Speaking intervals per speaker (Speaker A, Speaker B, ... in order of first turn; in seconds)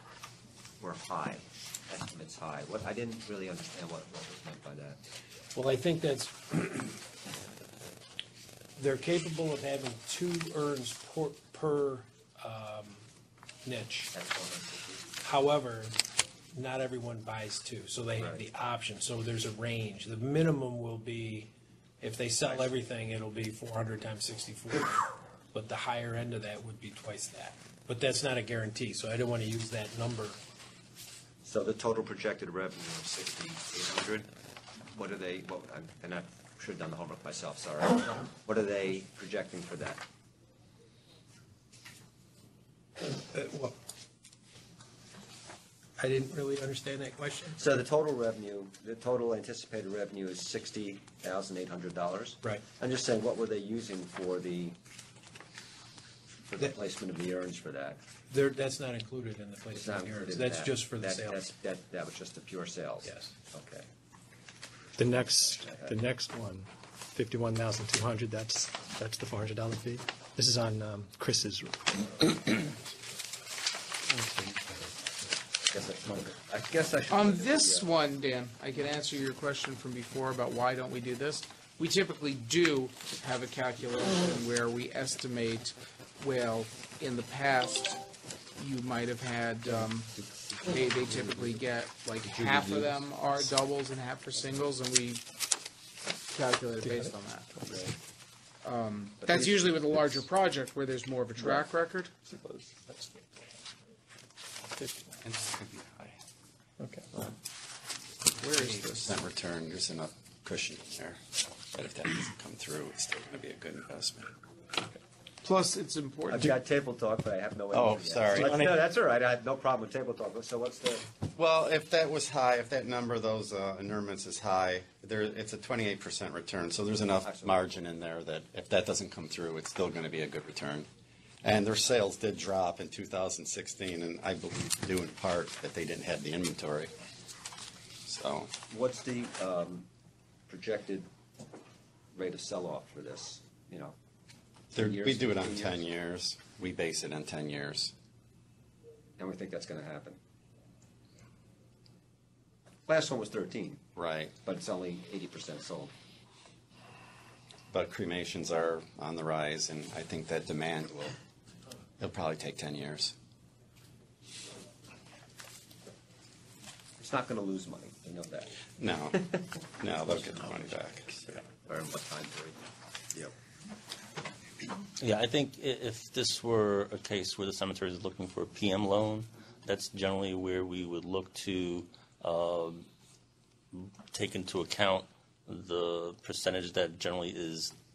Speaker A: 0.8-5.0, 14.1-15.1, 18.1-18.4, 22.4-22.7, 31.4-34.3, 34.9-40.0, 47.5-54.8, 56.5-58.0, 59.7-63.9, 65.0-66.0, 75.7-77.9, 99.2-100.2, 116.3-121.1, 127.2-127.6, 138.7-139.9, 140.5-141.1, 142.1-143.9, 144.8-145.8, 149.2-150.2, 152.9-153.8, 154.4-155.9, 167.0-168.5, 169.1-172.6
Speaker B: 5.5-7.0, 8.8-13.0, 13.6-14.1, 15.2-16.0, 16.5-30.4, 43.0-43.8, 46.0-47.6, 58.3-61.5, 63.0-63.3
Speaker C: 65.0-72.7, 96.8-97.9, 102.3-103.2, 104.8-105.1, 106.8-107.1
Speaker D: 77.1-88.0, 88.6-90.1, 90.6-95.2, 96.3-97.5, 98.6-102.1, 108.4-109.2, 115.4-116.5
Speaker E: 105.4-106.0, 108.5-114.3, 117.7-118.8, 121.3-130.9, 131.4-136.9, 138.1-138.5, 144.7-147.9, 153.9-154.3, 157.7-161.2, 162.0-163.1, 168.8-169.2, 169.8-171.3
Speaker F: 175.0-182.9, 183.7-187.7